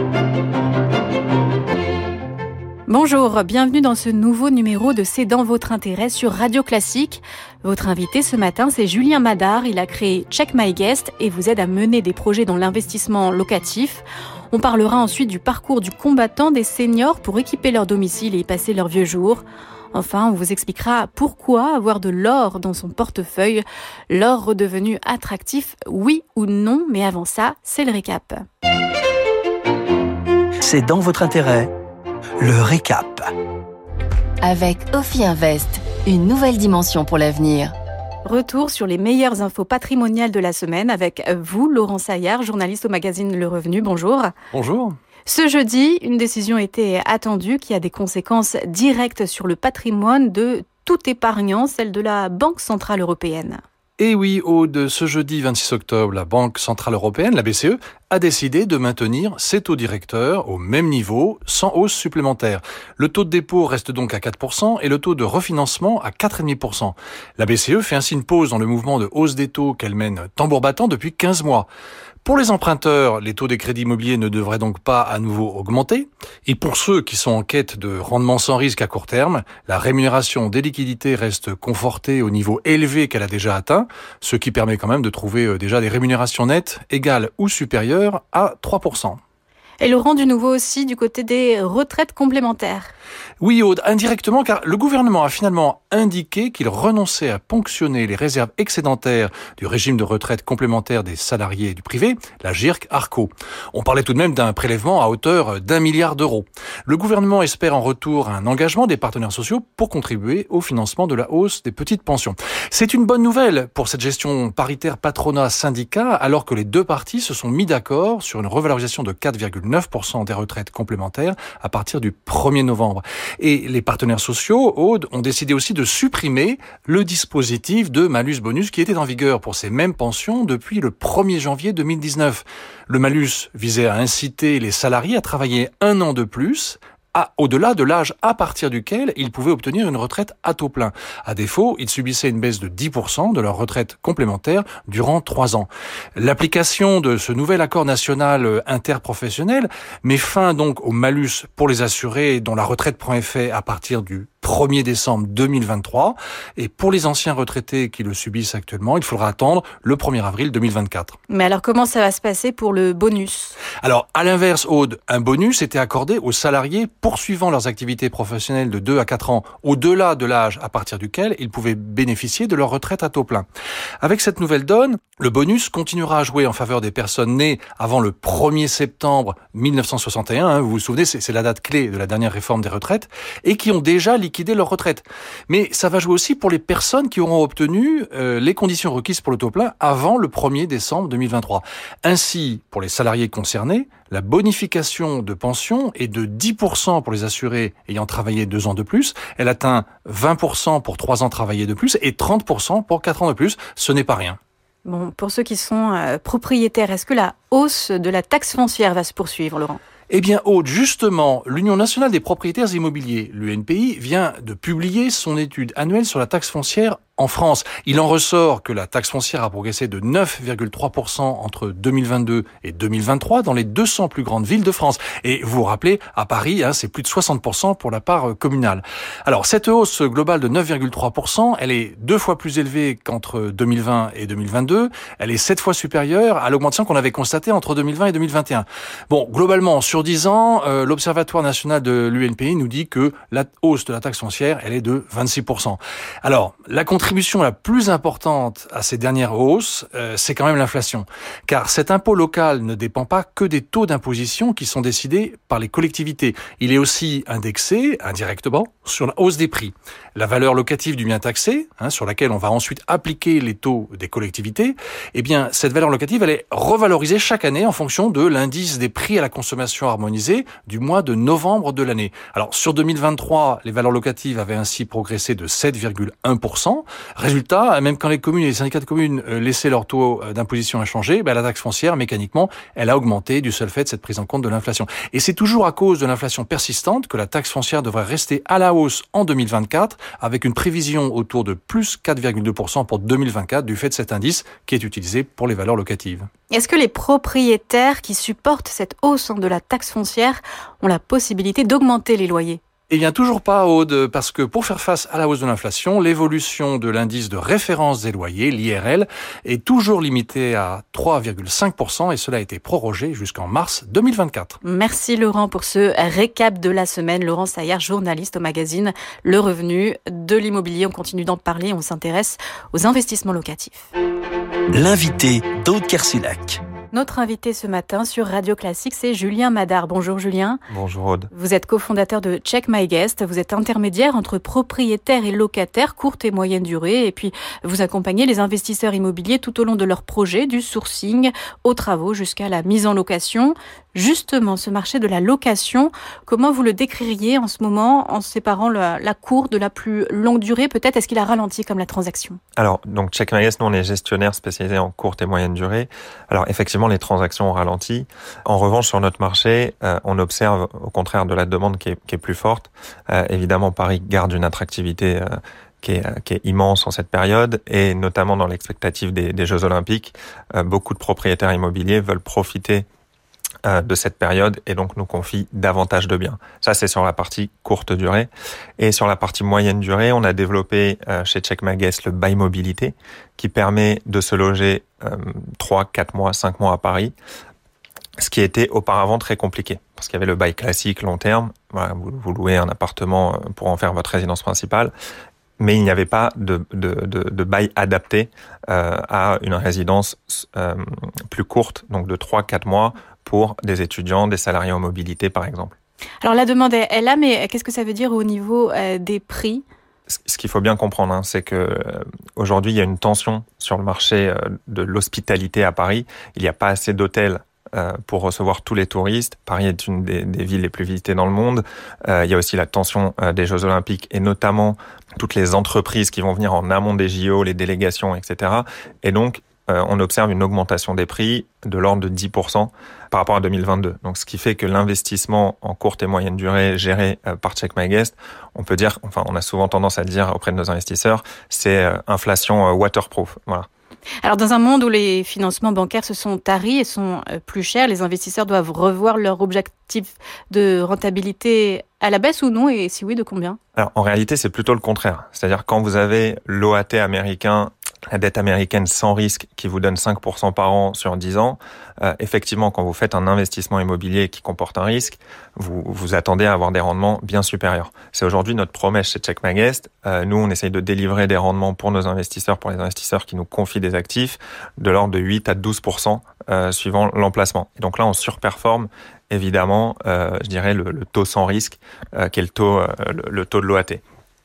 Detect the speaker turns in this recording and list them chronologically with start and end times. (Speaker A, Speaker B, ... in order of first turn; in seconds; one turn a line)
Speaker A: 2.9-28.4
Speaker B: 30.6-31.7
Speaker B: 32.4-33.3
Speaker C: 34.4-37.7
Speaker A: 38.2-44.3
Speaker D: 44.5-45.0
Speaker A: 45.3-53.6
Speaker D: 54.0-71.7
Speaker D: 72.2-89.2
Speaker A: 89.8-92.9
Speaker D: 93.4-161.2
Speaker A: 161.3-163.6
Speaker D: 163.8-173.4
Speaker D: 174.0-204.4
Speaker A: 204.8-209.8
Speaker D: 210.1-296.3
Speaker A: 296.5-302.6
Speaker D: 302.9-314.6
Speaker A: 314.6-323.9
Speaker B: 324.7-326.6
Speaker A: 326.9-330.6
Speaker E: 330.7-331.3
Speaker A: 331.3-352.4
Speaker E: 352.6-372.9
Speaker E: 373.7-387.1
Speaker E: 388.2-394.9
Speaker E: 395.6-405.8
Speaker A: 406.2-409.6
Speaker E: 410.1-443.7
Speaker A: 444.2-453.6
Speaker E: 453.8-484.0